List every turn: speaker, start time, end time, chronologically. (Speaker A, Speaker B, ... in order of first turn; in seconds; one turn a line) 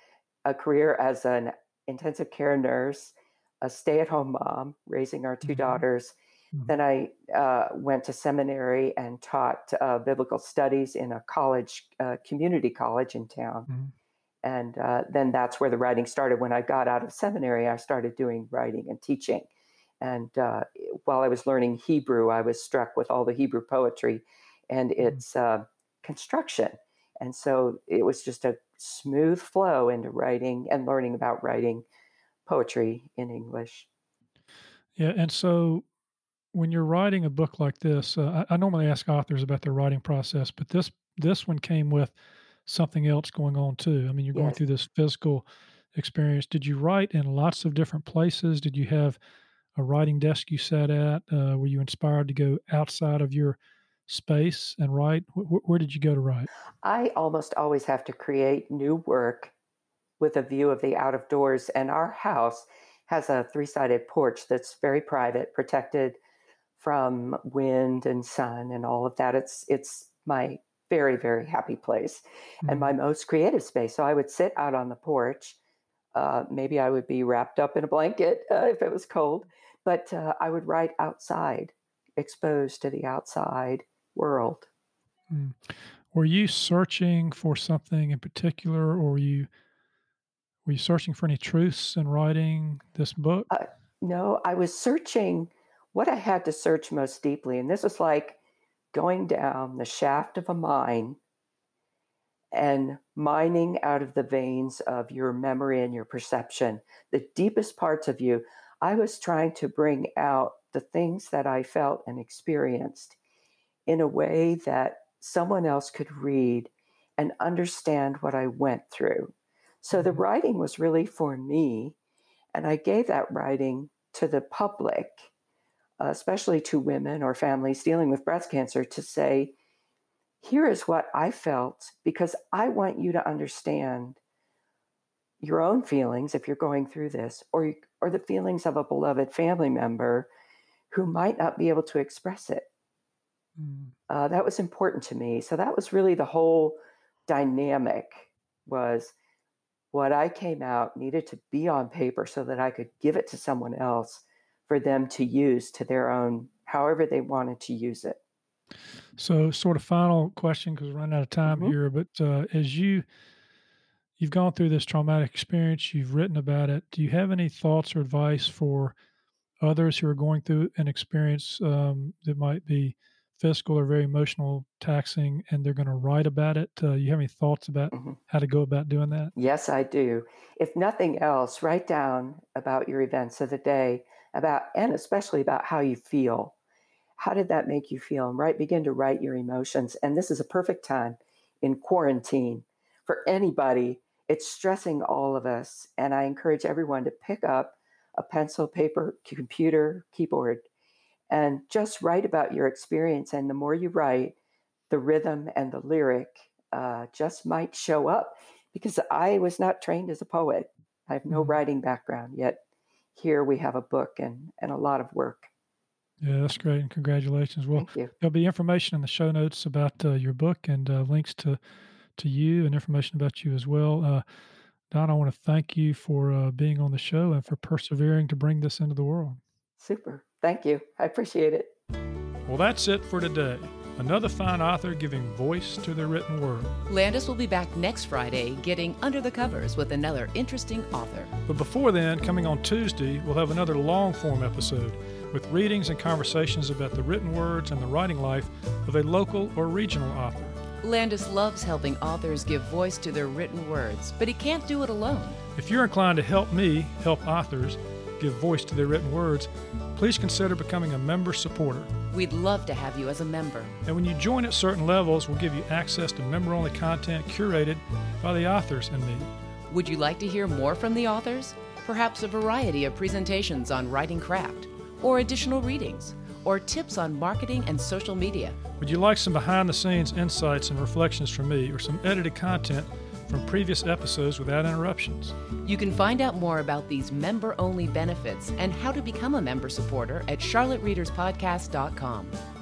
Speaker A: 0.5-6.2
Speaker B: 5.4-5.8
Speaker A: 6.7-13.7
Speaker A: 14.4-19.5
Speaker A: 20.0-31.9
Speaker A: 32.5-33.9
Speaker B: 35.0-35.9
Speaker B: 36.5-42.1
Speaker B: 42.7-49.2
Speaker A: 44.3-44.6
Speaker B: 49.8-56.5
Speaker A: 56.8-59.5
Speaker A: 60.2-66.2
Speaker A: 66.8-75.6
Speaker B: 72.6-72.9
Speaker A: 76.1-84.7
Speaker B: 85.3-89.5
Speaker B: 90.7-93.5
Speaker A: 93.5-98.4
Speaker A: 98.9-101.2
Speaker A: 102.5-113.2
Speaker A: 113.9-122.0
Speaker A: 122.5-125.3
Speaker A: 126.0-129.5
Speaker A: 130.4-134.2
Speaker A: 135.4-140.3
Speaker A: 140.9-142.7
Speaker B: 143.6-143.9
Speaker A: 144.1-149.1
Speaker A: 149.9-158.2
Speaker B: 159.2-163.1
Speaker A: 161.5-161.8
Speaker B: 164.2-168.9
Speaker B: 169.6-179.3
Speaker A: 179.4-186.5
Speaker A: 187.2-200.7
Speaker A: 201.3-204.4
Speaker A: 204.9-212.6
Speaker B: 211.3-211.6
Speaker A: 213.2-215.5
Speaker B: 216.2-221.6
Speaker A: 217.8-218.1
Speaker B: 222.2-224.2
Speaker B: 224.9-229.4
Speaker A: 229.8-231.7
Speaker B: 232.5-236.8
Speaker C: 236.9-241.3
Speaker B: 241.5-250.6
Speaker C: 250.8-255.4
Speaker B: 255.6-261.9
Speaker C: 262.1-263.7
Speaker B: 263.8-269.3
Speaker C: 269.7-278.6
Speaker B: 278.8-285.4
Speaker C: 285.6-292.4